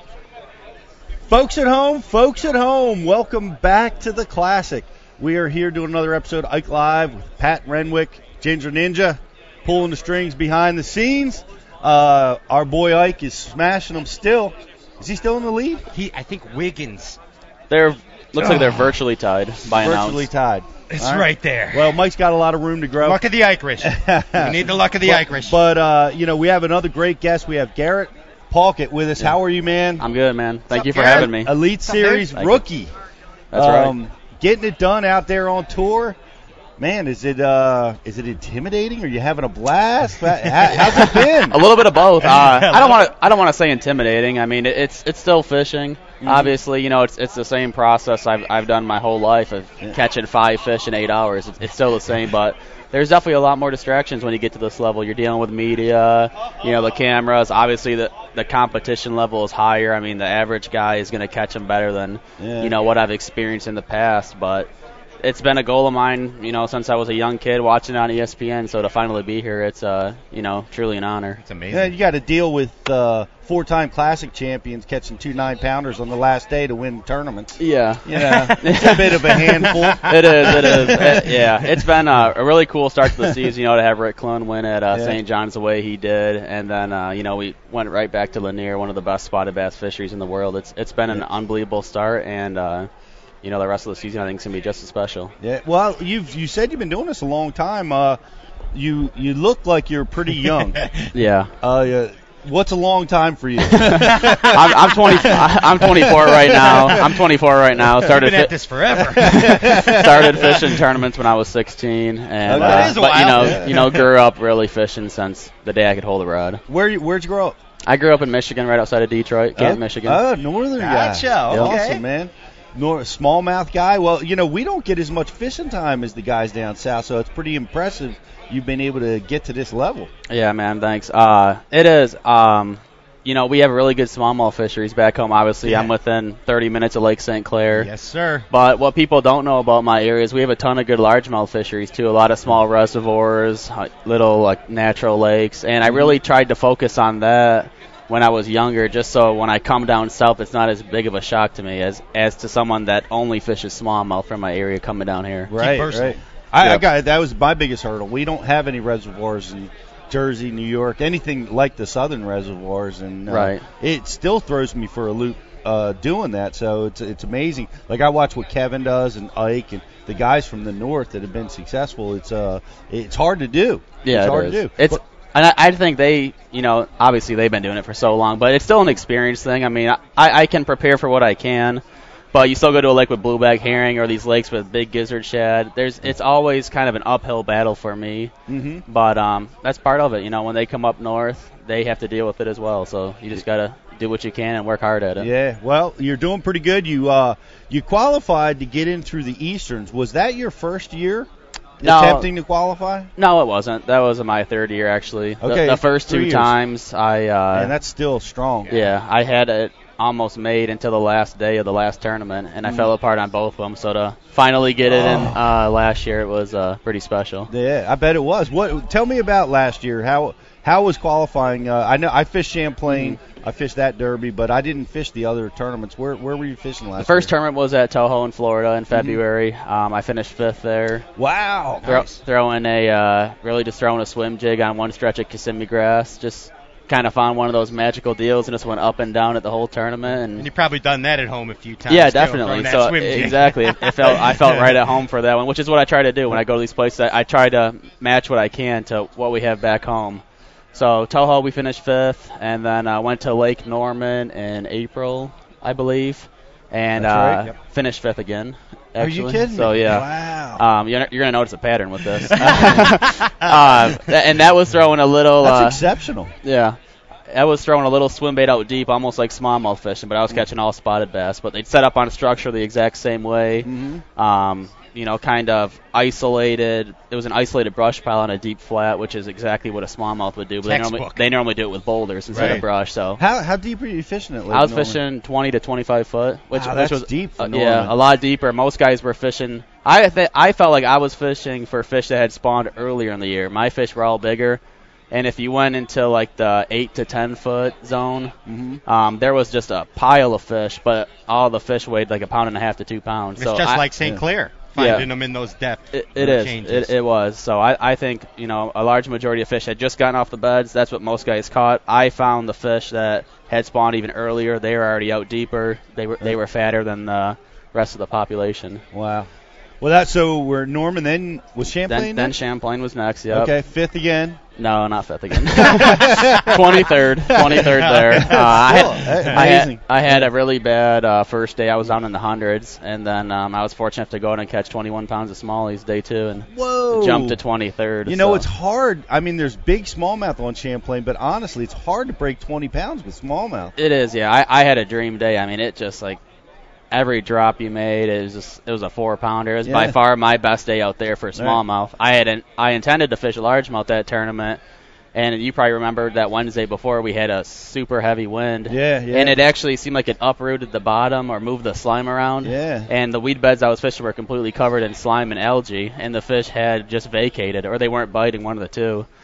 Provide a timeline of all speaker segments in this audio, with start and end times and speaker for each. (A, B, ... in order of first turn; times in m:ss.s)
0:01.3-0:15.8 A
0:15.9-0:17.2 B
0:17.7-0:20.3 C
0:18.4-0:18.8 A
0:19.7-0:23.2 A
0:20.9-0:22.0 B
0:23.0-0:25.6 B
0:23.8-0:30.0 A
0:30.0-0:31.6 C
0:30.7-0:31.3 B
0:30.8-0:32.9 A
0:31.8-0:32.3 B
0:32.3-0:32.6 C
0:33.5-0:34.0 C
0:33.5-0:36.2 A
0:36.8-0:41.6 A
0:40.7-1:04.7 C
0:42.2-0:43.1 B
0:46.2-0:46.6 A
1:02.4-1:02.8 A
1:05.2-1:11.4 C
1:11.4-1:12.0 B
1:11.7-1:21.4 A
1:17.6-1:19.4 C
1:18.1-1:21.3 B
1:20.0-1:32.9 C
1:24.9-1:25.2 A
1:33.4-1:35.3 C
1:35.4-1:38.2 A
1:38.7-1:40.9 A
1:41.1-1:41.5 C
1:41.6-1:47.2 A
1:43.6-1:48.5 C
1:44.2-1:45.4 B
1:48.0-1:50.7 B
1:49.1-1:50.8 A
1:49.1-1:56.6 C
1:52.4-1:54.0 A
1:52.5-1:54.1 B
1:56.7-1:57.6 A
1:57.8-2:00.2 C
1:59.6-2:10.1 A
2:00.8-2:02.0 B
2:01.5-2:01.8 C
2:10.3-2:17.9 C
2:15.6-2:15.9 B
2:17.7-2:18.5 B
2:18.5-2:35.5 C
2:25.8-2:26.2 A
2:35.5-2:55.0 A
2:35.6-2:36.2 B
2:36.6-2:36.8 C
2:43.3-2:43.6 C
2:54.0-3:08.3 C
3:08.5-3:08.8 A
3:08.9-3:15.3 C
3:15.2-3:21.3 A
3:21.8-3:23.1 A
3:21.8-3:22.3 C
3:23.2-3:27.7 C
3:25.4-3:26.6 A
3:27.5-3:28.8 A
3:28.7-3:37.5 C
3:32.6-3:32.9 A
3:34.9-3:35.4 A
3:37.5-3:47.3 A
3:42.9-3:43.2 C
3:47.0-3:51.1 C
3:48.9-3:49.2 A
3:51.2-3:52.0 A
3:51.8-3:52.2 B
3:51.8-4:00.5 C
4:00.4-4:04.8 B
4:01.9-4:25.8 C
4:17.0-4:17.5 A
4:19.0-4:20.6 A
4:22.3-4:23.5 B
4:25.4-4:26.3 A
4:26.4-4:26.8 C
4:27.3-4:43.2 C
4:33.6-4:34.0 A
4:40.6-4:41.3 B
4:42.3-4:42.6 B
4:42.3-4:42.6 A
4:43.2-4:45.0 A
4:44.5-4:58.4 C
4:46.5-4:48.0 A
4:58.5-4:58.8 A
4:58.9-5:03.8 C
5:03.4-5:06.9 B
5:04.8-5:05.1 C
5:05.9-5:18.8 C
5:18.9-5:19.3 A
5:19.8-5:22.4 A
5:21.9-5:23.5 C
5:23.3-5:24.4 A
5:24.6-5:38.5 C
5:25.5-5:30.3 A
5:27.4-5:28.4 B
5:29.1-5:29.4 B
5:36.5-5:37.4 A
5:38.1-5:43.7 A
5:43.8-5:46.2 C
5:46.9-5:54.6 C
5:49.6-5:50.0 A
5:51.4-5:51.6 A
5:55.1-6:09.1 C
5:58.7-5:59.4 A
6:02.4-6:02.9 A